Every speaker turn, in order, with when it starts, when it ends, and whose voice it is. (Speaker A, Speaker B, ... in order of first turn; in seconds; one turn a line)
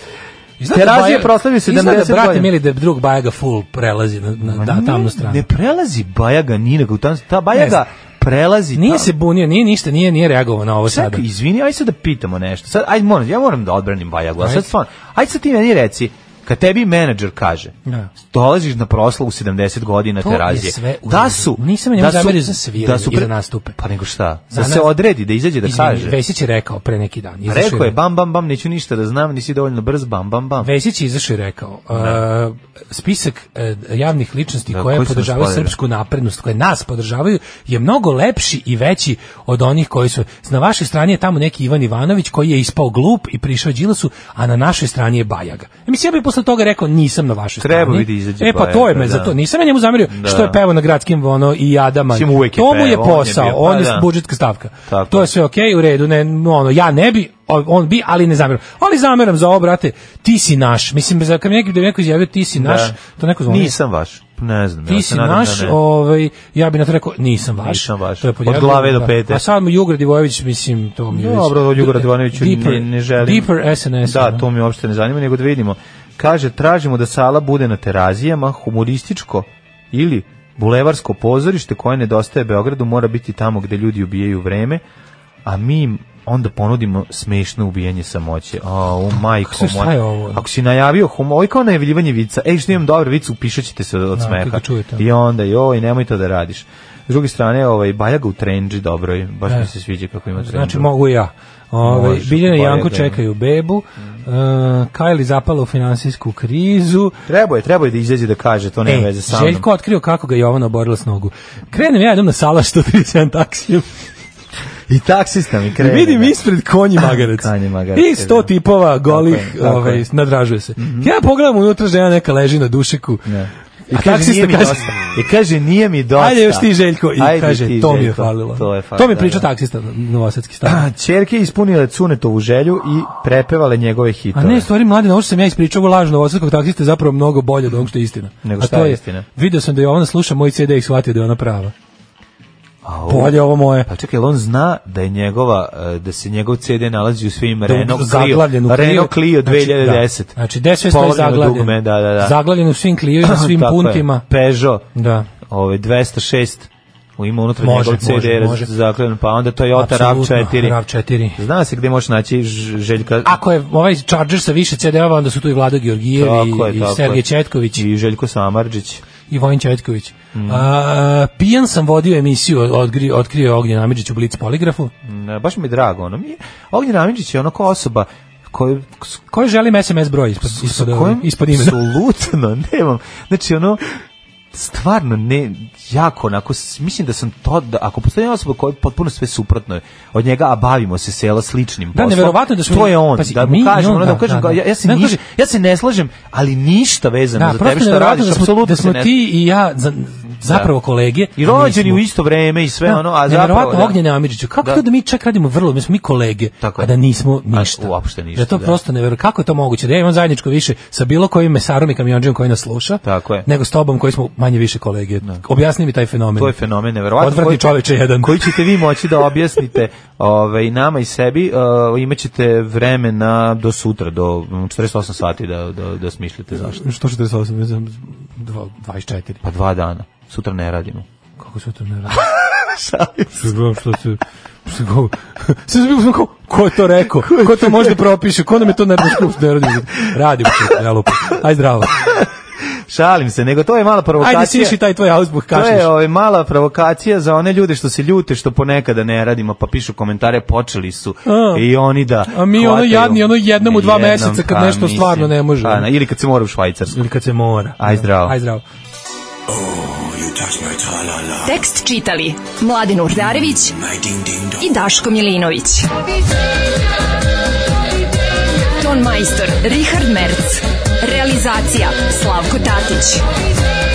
Speaker A: 0.6-5.5
Speaker B: 0.7-2.5
Speaker B: 4.4-9.1
Speaker A: 7.5-7.8
Speaker A: 8.7-11.2
Speaker B: 10.9-26.2
Speaker A: 14.4-14.7
Speaker A: 20.2-23.8
Speaker A: 24.5-24.9
Speaker A: 25.6-27.9
Speaker B: 27.5-30.7
Speaker A: 30.6-63.7
Speaker B: 31.9-32.2
Speaker B: 34.7-35.8
Speaker B: 47.6-49.4
Speaker B: 50.1-50.6
Speaker B: 52.1-54.1
Speaker B: 54.9-55.3
Speaker B: 62.5-65.8
Speaker A: 64.9-74.4
Speaker B: 67.6-69.4
Speaker B: 71.1-73.5
Speaker B: 74.0-84.8
Speaker B: 85.5-100.9
Speaker A: 89.4-90.4
Speaker A: 94.2-95.0
Speaker A: 100.4-107.2
Speaker B: 101.8-103.2
Speaker B: 107.3-109.7
Speaker A: 108.9-113.9
Speaker B: 114.9-116.4
Speaker A: 115.8-123.3
Speaker B: 117.0-118.5
Speaker B: 119.1-120.1
Speaker B: 120.8-121.1
Speaker B: 123.3-129.5
Speaker A: 123.9-125.1
Speaker A: 126.2-130.8
Speaker B: 130.7-134.7
Speaker A: 134.3-141.7
Speaker B: 138.4-139.3
Speaker B: 142.8-150.3
Speaker A: 143.1-143.9
Speaker A: 147.7-154.2
Speaker B: 150.9-152.4
Speaker B: 153.2-154.9
Speaker A: 154.9-155.3
Speaker B: 155.4-160.8
Speaker A: 157.6-158.7
Speaker A: 159.7-161.4
Speaker B: 161.4-163.4
Speaker A: 163.2-167.8
Speaker B: 166.2-169.0
Speaker A: 169.3-174.9
Speaker B: 170.3-170.7
Speaker B: 175.0-179.2
Speaker A: 179.3-181.8
Speaker B: 180.4-183.8
Speaker B: 184.5-199.2
Speaker A: 191.9-195.2
Speaker A: 197.4-202.0
Speaker B: 200.4-200.7
Speaker B: 201.4-204.0
Speaker A: 202.9-216.6
Speaker B: 206.6-206.9
Speaker B: 207.5-208.8
Speaker B: 213.0-213.5
Speaker B: 216.4-226.8
Speaker A: 217.2-218.7
Speaker A: 226.6-229.4
Speaker B: 229.4-231.1
Speaker A: 231.4-232.3
Speaker B: 232.1-233.5
Speaker A: 233.3-242.1
Speaker B: 237.2-238.0
Speaker B: 241.9-244.8
Speaker A: 244.2-245.9
Speaker B: 245.5-257.0
Speaker A: 251.3-251.7
Speaker A: 252.3-255.9
Speaker A: 256.9-258.6
Speaker B: 257.8-258.4
Speaker C: 259.5-261.6
Speaker D: 261.4-263.8
Speaker C: 263.2-264.6
Speaker D: 264.6-265.9
Speaker D: 268.8-273.2